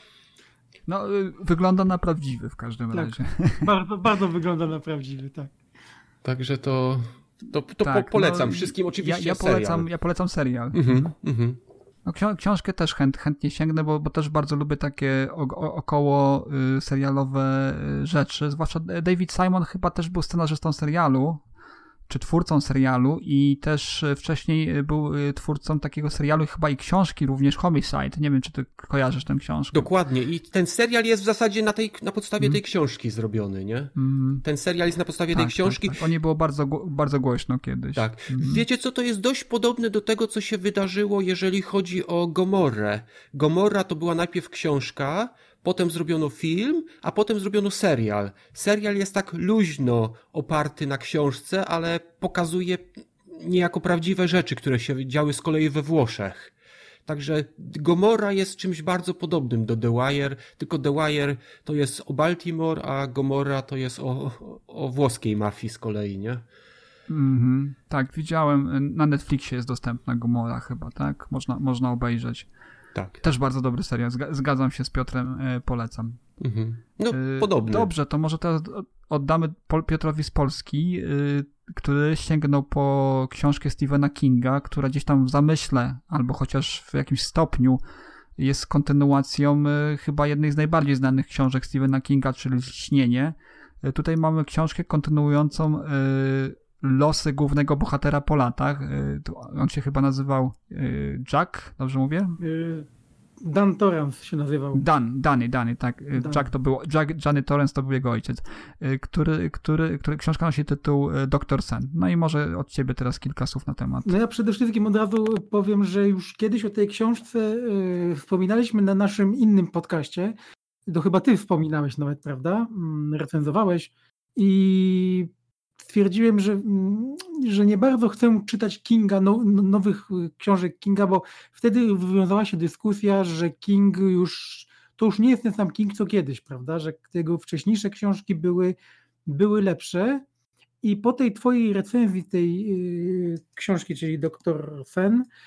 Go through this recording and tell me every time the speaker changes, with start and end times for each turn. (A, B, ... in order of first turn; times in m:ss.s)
0:00.9-0:03.7 A
0:02.9-0:05.5 B
0:06.2-0:09.9 C
0:07.8-0:11.1 A
0:10.7-0:11.6 C
0:12.0-0:21.4 A
0:22.1-0:29.9 A
0:29.7-0:36.0 C
0:34.0-0:34.4 A
0:35.3-0:38.6 A
0:38.0-0:56.5 C
0:57.1-1:06.4 C
1:07.1-1:12.5 A
1:13.0-1:13.2 C
1:13.2-1:16.2 A
1:16.4-1:17.9 C
1:17.1-1:27.8 A
1:28.4-1:42.4 A
1:42.4-1:42.9 B
1:43.4-1:44.8 B
1:44.7-1:54.1 A
1:46.2-1:46.4 B
1:54.0-2:00.4 B
2:00.9-2:05.3 B
2:05.8-2:20.2 B
2:20.8-2:25.3 B